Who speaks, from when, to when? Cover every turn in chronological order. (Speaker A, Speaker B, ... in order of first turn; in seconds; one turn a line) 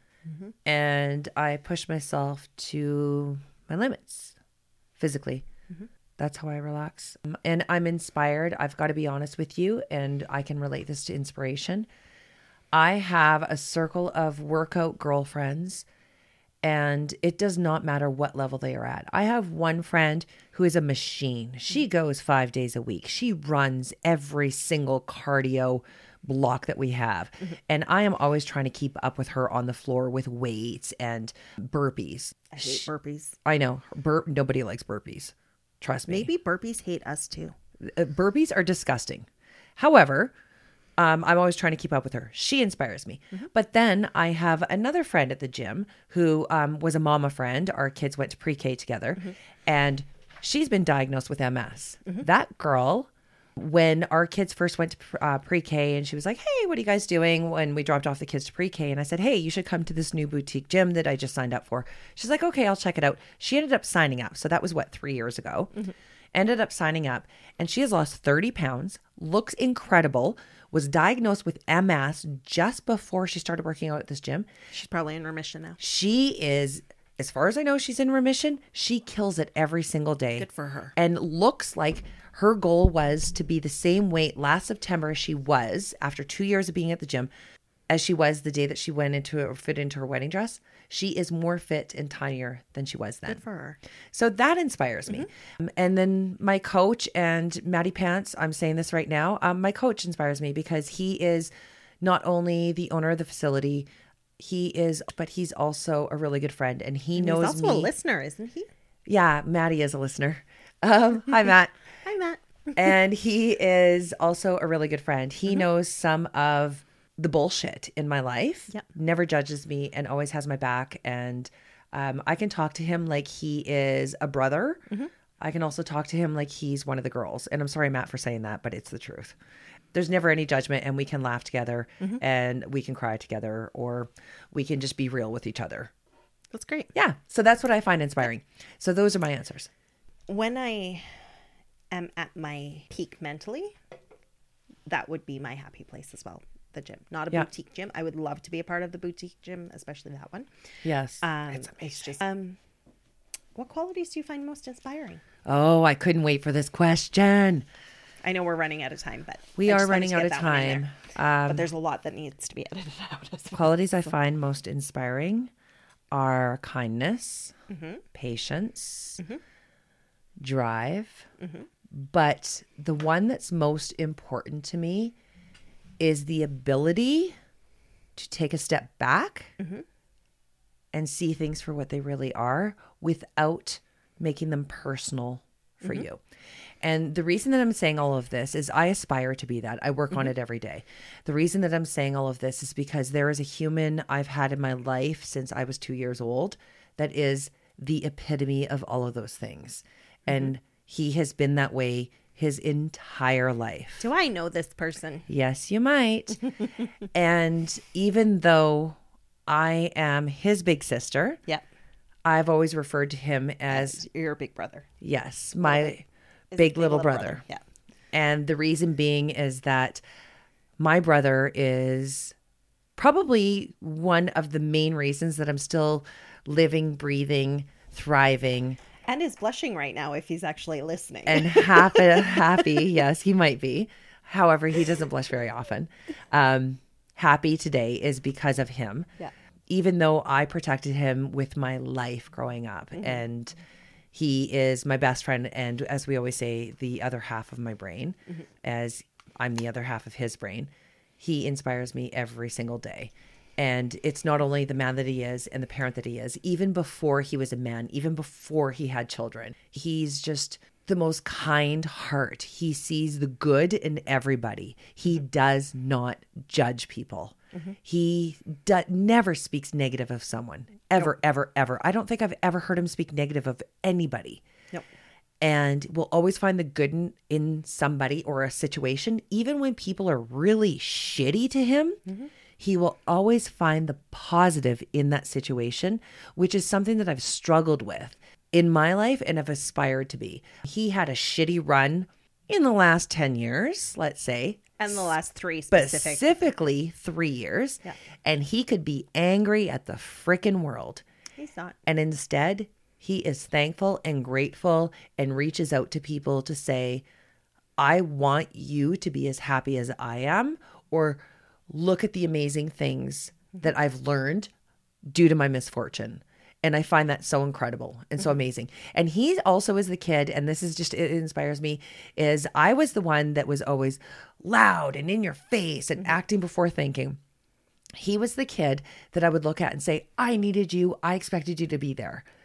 Speaker A: 0.6-4.3
Speaker A: 5.0-5.5
Speaker A: 6.2-11.9
Speaker A: 12.7-15.8
Speaker A: 16.6-32.9
Speaker B: 32.5-33.4
Speaker A: 33.4-36.3
Speaker B: 36.1-37.5
Speaker A: 37.8-40.3
Speaker A: 41.0-65.7
Speaker A: 66.3-74.5
Speaker B: 74.7-75.8
Speaker A: 75.8-87.3
Speaker B: 80.4-80.9
Speaker A: 87.9-93.4
Speaker B: 93.3-93.8
Speaker A: 94.1-107.9
Speaker B: 107.1-108.7
Speaker A: 109.0-111.7
Speaker B: 112.0-112.9
Speaker A: 112.8-124.8
Speaker A: 125.4-129.3
Speaker A: 129.9-135.9
Speaker B: 136.5-136.9
Speaker A: 136.9-139.7
Speaker B: 140.3-141.1
Speaker B: 141.9-143.7
Speaker B: 144.9-150.5
Speaker A: 150.8-152.0
Speaker B: 151.2-152.6
Speaker B: 153.5-155.2
Speaker A: 155.4-157.7
Speaker B: 158.2-160.9
Speaker A: 159.6-161.7
Speaker B: 161.4-164.1
Speaker A: 163.5-165.5
Speaker A: 166.1-167.5
Speaker B: 167.7-168.0
Speaker A: 168.1-169.2
Speaker A: 170.4-171.3
Speaker B: 171.4-171.7
Speaker A: 171.9-175.1
Speaker A: 176.0-177.4
Speaker A: 178.2-179.5
Speaker B: 179.6-179.8
Speaker A: 180.9-186.2
Speaker A: 186.8-204.1
Speaker B: 204.0-205.3
Speaker A: 205.3-206.4
Speaker A: 207.1-211.4
Speaker A: 212.2-214.0
Speaker B: 213.7-214.9
Speaker A: 215.0-216.0
Speaker B: 215.6-216.0
Speaker B: 216.5-217.6
Speaker A: 216.6-217.4
Speaker A: 218.1-220.0
Speaker A: 220.8-222.3
Speaker A: 223.0-228.8
Speaker B: 229.1-232.8
Speaker A: 231.2-239.1
Speaker A: 239.7-243.6
Speaker A: 244.1-274.4
Speaker A: 275.4-282.0
Speaker A: 282.6-295.1
Speaker B: 294.8-296.3
Speaker A: 295.7-301.0
Speaker B: 301.4-301.8
Speaker A: 301.9-307.0
Speaker A: 307.8-314.5
Speaker A: 315.0-327.2
Speaker A: 327.9-332.2